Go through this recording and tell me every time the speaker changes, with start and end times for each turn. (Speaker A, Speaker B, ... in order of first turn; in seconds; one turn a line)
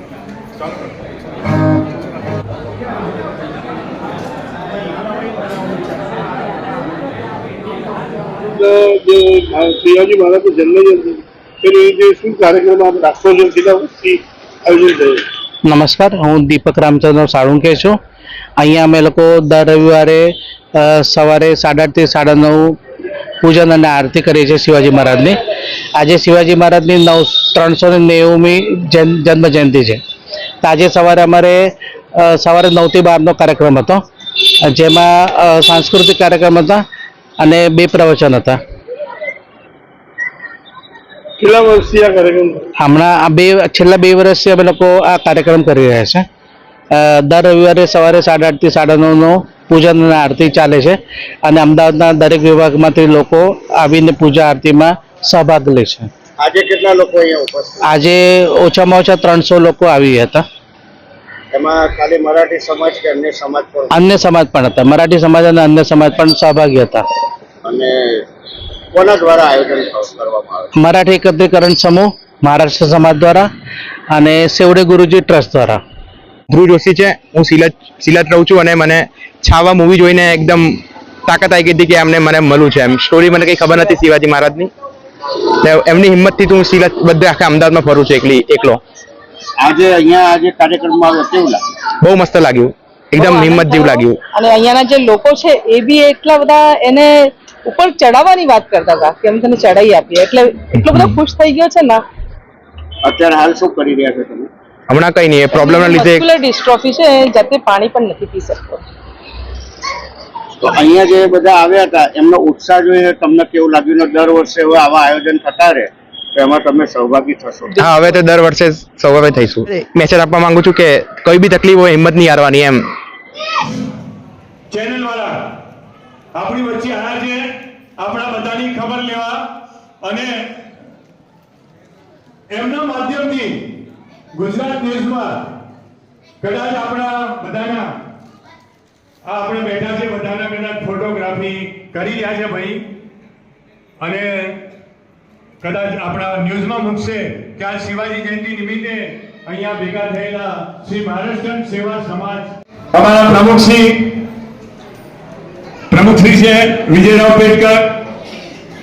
Speaker A: 8.6-15.2
Speaker B: 15.7-18.0
Speaker B: 18.6-22.8
Speaker B: 23.4-25.4
Speaker B: 26.0-30.0
Speaker B: 30.6-36.8
Speaker B: 37.4-38.6
Speaker A: 41.4-42.6
Speaker B: 42.8-46.2
Speaker B: 46.9-56.1
Speaker C: 56.4-57.9
Speaker B: 57.9-60.4
Speaker C: 61.5-63.9
Speaker B: 63.9-67.0
Speaker C: 67.6-68.2
Speaker C: 68.9-70.7
Speaker B: 70.8-73.5
Speaker B: 74.1-75.8
Speaker D: 76.5-84.7
Speaker D: 85.6-88.8
Speaker C: 89.6-91.6
Speaker D: 92.0-94.2
Speaker E: 93.2-102.0
Speaker C: 103.0-104.5
Speaker D: 104.9-106.2
Speaker E: 105.5-108.8
Speaker C: 110.6-117.8
Speaker D: 117.8-122.8
Speaker F: 124.7-125.4
Speaker F: 126.3-127.5
Speaker F: 128.0-129.4
Speaker F: 130.0-130.4
Speaker F: 132.5-133.6
Speaker F: 134.3-135.4
Speaker F: 136.4-137.9
Speaker F: 139.2-142.8
Speaker F: 144.0-144.6
Speaker F: 145.6-154.0
Speaker F: 155.9-157.9